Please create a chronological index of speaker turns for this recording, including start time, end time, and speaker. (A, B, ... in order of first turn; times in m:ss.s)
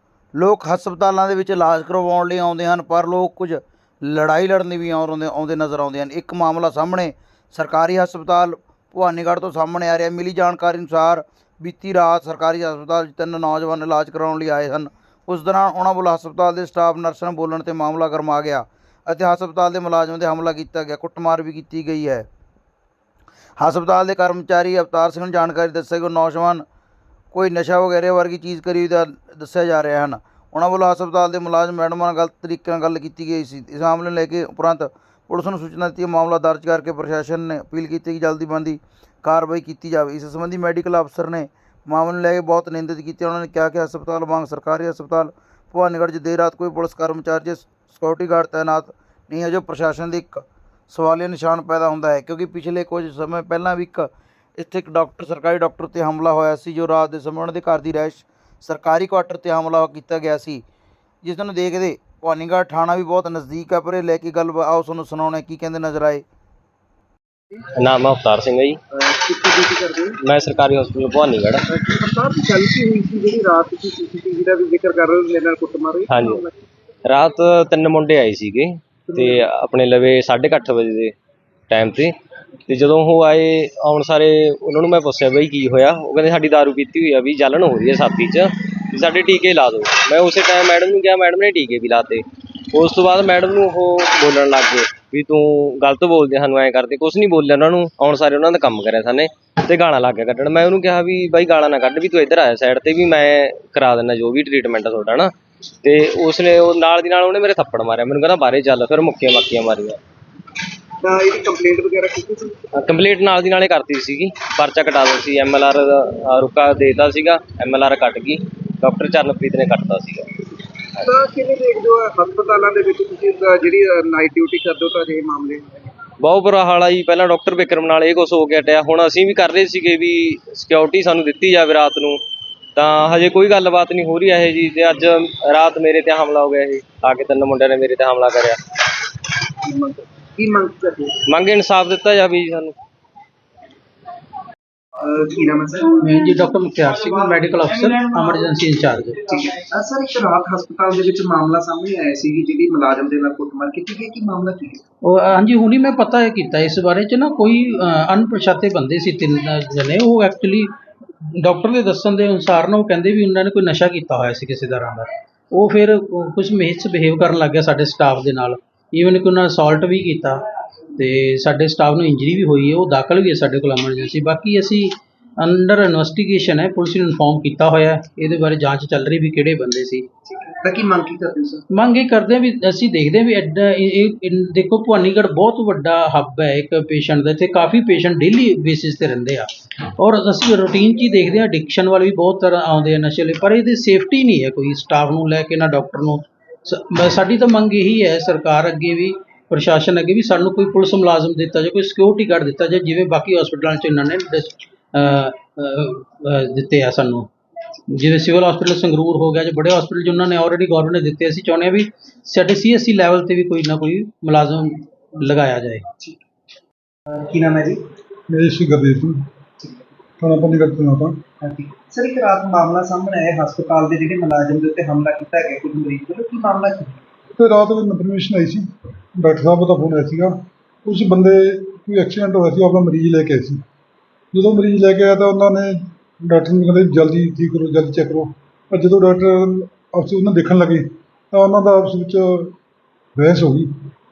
0:00.4-0:22.3 A
0:23.6-0:26.6 A
0:27.3-1:00.6 A
1:01.2-1:06.2 A
1:07.8-1:08.8 B
1:08.9-1:10.2 C
1:10.2-1:11.6 B
1:11.7-1:16.5 C
1:16.1-1:16.4 B
1:17.1-1:21.1 B
1:21.7-1:22.1 B
1:22.7-1:50.0 B
1:51.0-1:52.6 C
1:52.7-2:00.3 B
2:01.0-2:05.9 C
2:06.2-2:12.2 B
2:12.8-2:18.6 B
2:19.6-2:21.2 C
2:21.3-2:22.7 B
2:25.0-2:26.0 C
2:26.0-2:29.2 D
2:29.3-2:34.8 C
2:35.0-2:40.7 D
2:41.4-2:50.4 D
2:51.0-3:00.1 D
3:00.4-3:01.6 C
3:01.7-3:27.3 D
3:27.9-3:35.8 D
3:37.1-3:37.8 C
3:38.3-3:39.2 E
3:39.6-3:39.9 C
3:40.2-3:41.2 E
3:41.4-3:47.0 C
3:47.4-3:53.6 E
3:54.3-4:02.6 E
4:03.2-4:03.7 E